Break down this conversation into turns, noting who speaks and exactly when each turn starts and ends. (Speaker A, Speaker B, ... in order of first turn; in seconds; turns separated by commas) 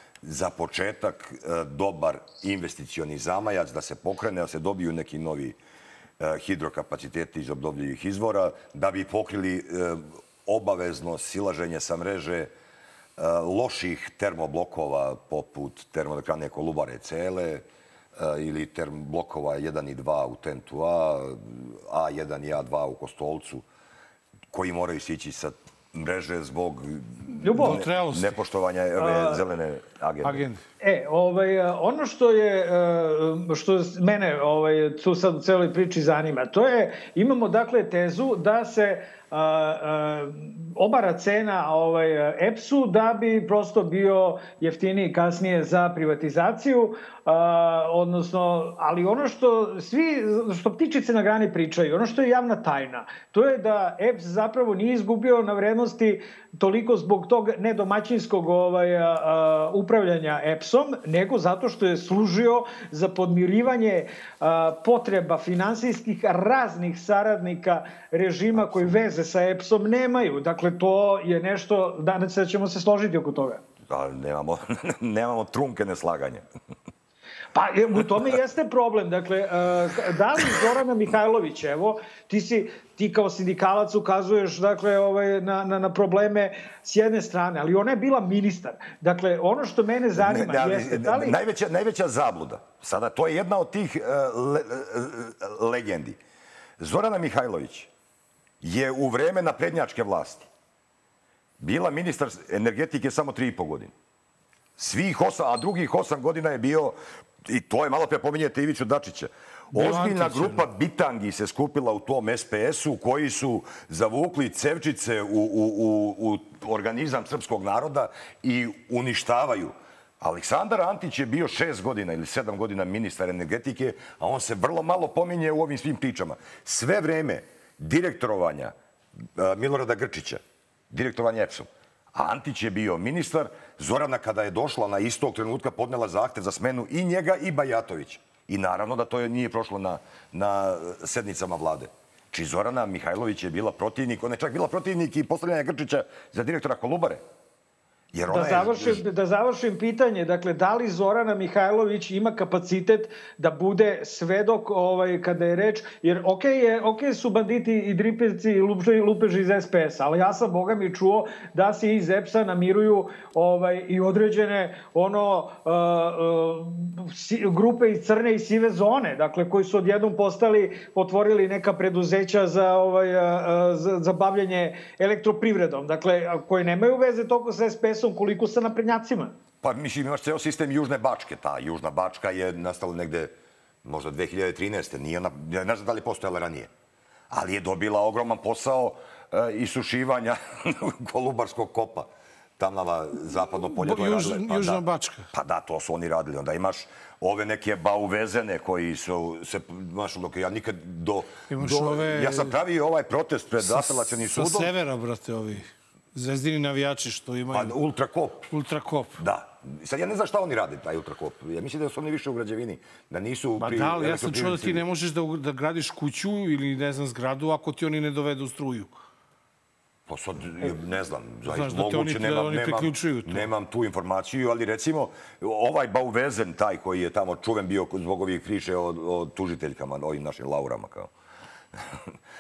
Speaker A: 0.2-5.6, Speaker A: 6.2-12.5, Speaker A: 13.2-17.6, Speaker A: 18.2-23.6, Speaker A: 24.5-30.5, Speaker B: 27.4-27.8, Speaker C: 27.6-28.4, Speaker B: 29.0-29.4, Speaker C: 30.2-30.6, Speaker B: 30.8-73.6, Speaker A: 68.5-68.9, Speaker A: 73.9-76.5, Speaker B: 77.5-91.4, Speaker A: 90.1-96.2, Speaker A: 96.8-97.9, Speaker A: 98.6-100.5, Speaker A: 101.6-103.9, Speaker A: 104.8-128.7, Speaker C: 109.7-110.7, Speaker A: 129.4-147.2, Speaker A: 148.1-149.0, Speaker B: 148.3-179.4, Speaker A: 179.6-183.3, Speaker A: 183.8-186.7, Speaker A: 187.3-192.1, Speaker A: 192.6-204.7, Speaker C: 193.7-195.3, Speaker C: 201.5-202.6, Speaker C: 203.6-207.8, Speaker A: 207.5-208.5, Speaker C: 208.5-209.2, Speaker A: 209.2-214.8, Speaker C: 213.6-218.9, Speaker A: 220.1-231.1, Speaker C: 221.4-223.5